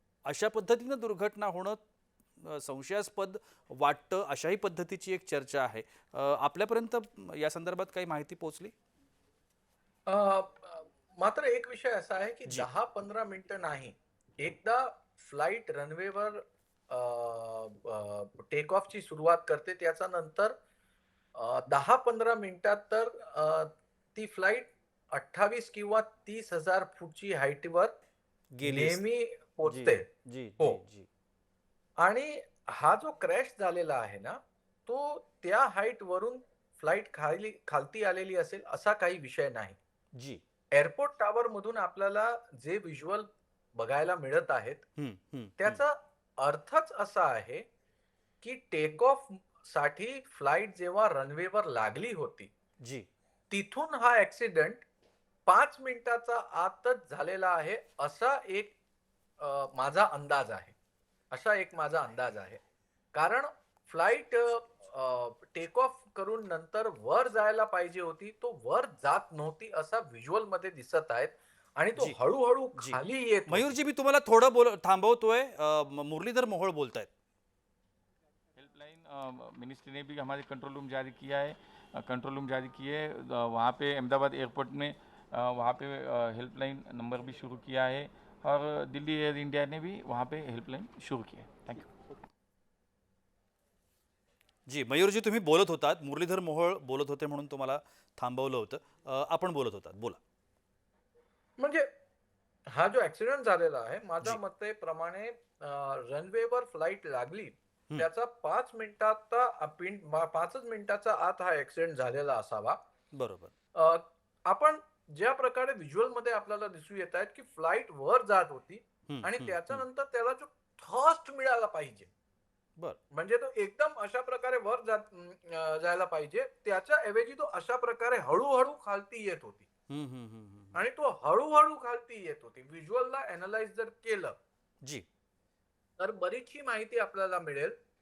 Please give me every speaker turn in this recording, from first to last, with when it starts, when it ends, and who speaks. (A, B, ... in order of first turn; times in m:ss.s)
0:00.2-0:01.8 A
0:02.4-0:08.7 A
0:10.1-0:20.6 B
0:21.3-0:27.9 B
0:28.6-0:29.0 A
0:28.6-0:30.0 B
0:29.6-0:31.1 A
0:32.0-0:39.8 B
0:40.2-0:40.4 A
0:40.7-0:44.8 B
0:45.0-0:45.8 A
0:45.6-0:47.6 B
0:48.4-0:52.5 B
0:52.8-0:53.1 A
0:53.5-0:54.8 B
0:55.4-0:58.7 B
0:59.4-1:00.7 B
1:01.3-1:02.6 B
1:03.1-1:13.7 B
1:12.8-1:17.1 A
1:18.6-1:32.0 C
1:34.7-1:40.2 A
1:41.6-1:41.9 B
1:42.7-1:52.8 B
1:53.1-1:53.5 A
1:53.7-2:02.1 B
1:59.1-1:59.8 A
2:03.1-2:09.7 B
2:09.9-2:10.8 A
2:10.7-2:14.4 B
2:16.0-2:17.8 B